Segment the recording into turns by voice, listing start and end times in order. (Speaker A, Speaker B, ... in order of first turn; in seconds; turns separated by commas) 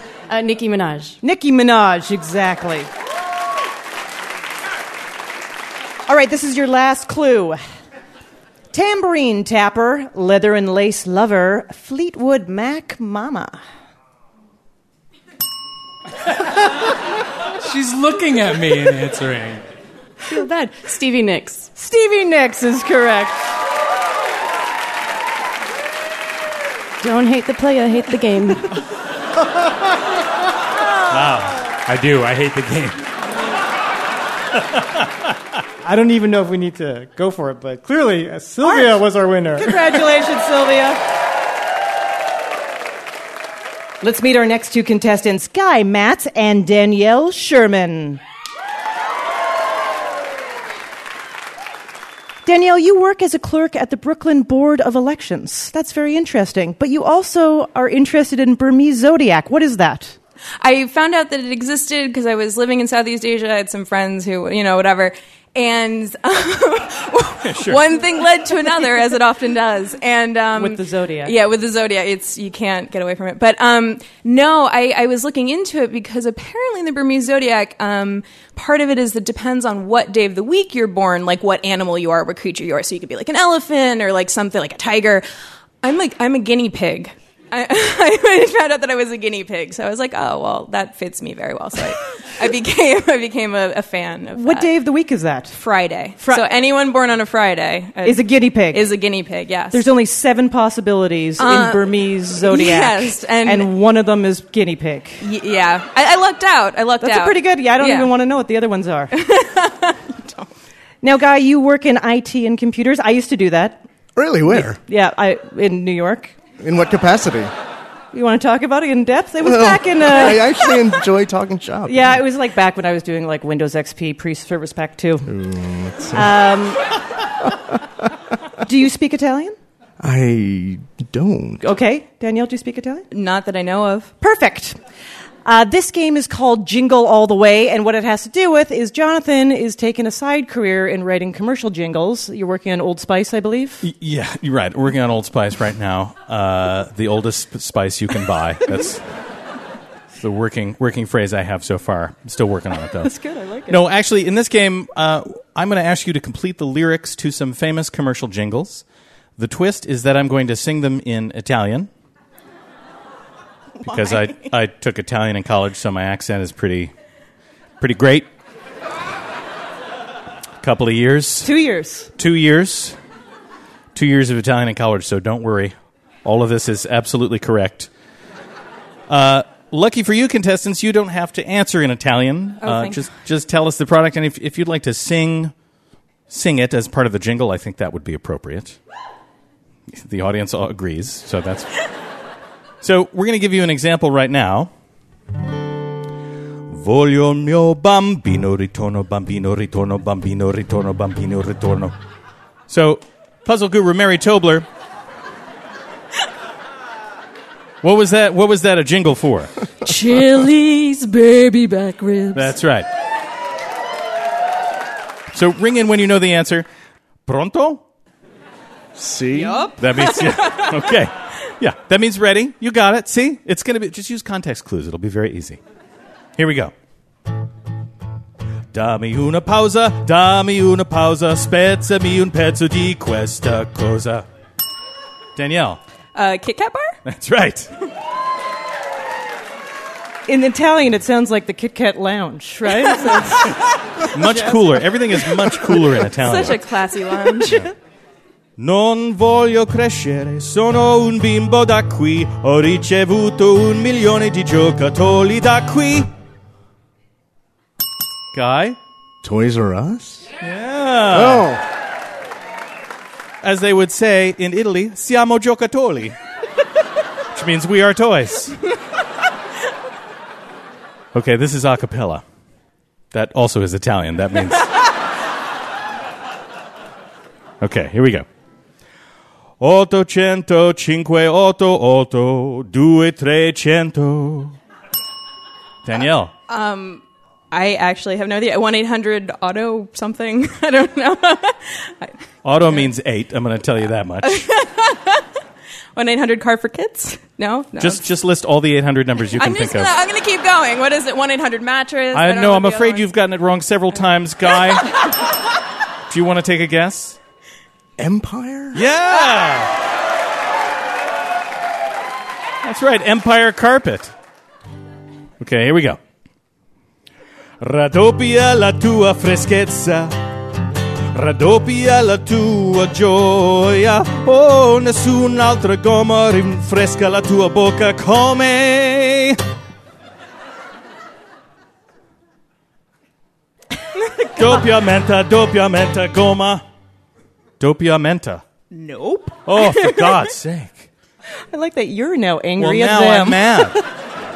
Speaker A: 0.3-1.2, Speaker B: 1.2-2.9, Speaker B: 6.1-7.6, Speaker B: 8.7-13.6, Speaker C: 17.6-19.6, Speaker A: 20.2-21.7, Speaker B: 21.8-23.5, Speaker A: 27.0-28.8, Speaker D: 31.1-31.6, Speaker C: 31.9-33.1, Speaker E: 35.8-40.0, Speaker B: 38.6-39.0, Speaker B: 39.6-41.0, Speaker B: 44.0-48.2, Speaker B: 52.5-60.2, Speaker F: 60.6-85.2, Speaker D: 67.4-67.9, Speaker B: 70.5-71.3, Speaker F: 85.8-94.7, Speaker B: 94.3-95.6, Speaker F: 95.5-99.9, Speaker B: 96.2-96.5, Speaker B: 98.0-98.8, Speaker B: 99.7-105.2, Speaker F: 101.4-101.9, Speaker F: 102.4-103.7, Speaker F: 105.2-108.1, Speaker B: 107.0-109.1, Speaker F: 109.1-110.5, Speaker B: 111.0-113.8, Speaker G: 114.2-114.8, Speaker B: 114.5-116.3, Speaker G: 116.6-117.5, Speaker B: 118.1-120.6, Speaker G: 119.4-122.2, Speaker B: 121.9-125.3, Speaker G: 125.3-126.5, Speaker B: 126.2-126.8, Speaker B: 128.6-129.6, Speaker G: 130.0-131.6, Speaker B: 131.6-133.1, Speaker F: 133.1-134.1, Speaker B: 134.2-134.8, Speaker B: 135.5-143.8, Speaker D: 143.8-149.0, Speaker D: 150.2-153.1, Speaker B: 153.0-153.8, Speaker D: 153.7-158.8, Speaker D: 159.4-161.9, Speaker D: 163.8-166.9, Speaker F: 163.9-164.2, Speaker D: 167.8-168.3, Speaker D: 170.6-171.5, Speaker B: 171.4-172.1, Speaker D: 172.2-173.0, Speaker D: 173.9-177.9, Speaker D: 179.1-185.5, Speaker F: 182.6-183.1, Speaker D: 186.3-188.8, Speaker D: 189.9-191.7, Speaker D: 192.8-194.7, Speaker D: 196.7-201.9, Speaker D: 202.7-204.7, Speaker D: 207.8-209.5, Speaker H: 209.9-212.6, Speaker D: 212.3-212.9, Speaker D: 215.3-216.7, Speaker D: 217.3-217.8, Speaker G: 219.0-219.7, Speaker F: 219.4-220.6, Speaker D: 219.8-225.6, Speaker D: 226.4-226.7, Speaker D: 228.7-234.3, Speaker D: 235.4-235.8, Speaker F: 236.2-236.9, Speaker D: 237.1-237.7, Speaker B: 240.3-243.6, Speaker D: 244.1-246.7, Speaker F: 246.1-247.7, Speaker D: 248.6-256.1, Speaker D: 258.3-258.8, Speaker G: 259.2-260.3, Speaker D: 260.4-261.5, Speaker G: 261.1-261.6, Speaker D: 263.4-266.1, Speaker D: 267.4-268.6, Speaker D: 271.1-272.2, Speaker D: 273.1-274.7, Speaker D: 277.6-278.3, Speaker D: 279.6-284.6, Speaker D: 285.9-286.3, Speaker F: 286.5-292.2, Speaker D: 292.4-294.5, Speaker F: 294.2-295.2, Speaker F: 295.9-298.1, Speaker D: 297.8-300.0, Speaker F: 299.2-303.1, Speaker D: 302.1-304.9, Speaker D: 306.1-307.2, Speaker G: 308.0-308.9, Speaker D: 308.7-309.7, Speaker D: 312.6-314.1, Speaker D: 315.4-316.0, Speaker D: 317.6-320.1, Speaker D: 321.1-329.4, Speaker D: 334.4-336.6, Speaker D: 337.6-338.4, Speaker B: 338.8-339.3, Speaker D: 339.5-340.9, Speaker F: 339.6-340.2, Speaker B: 341.5-343.8, Speaker D: 342.6-343.8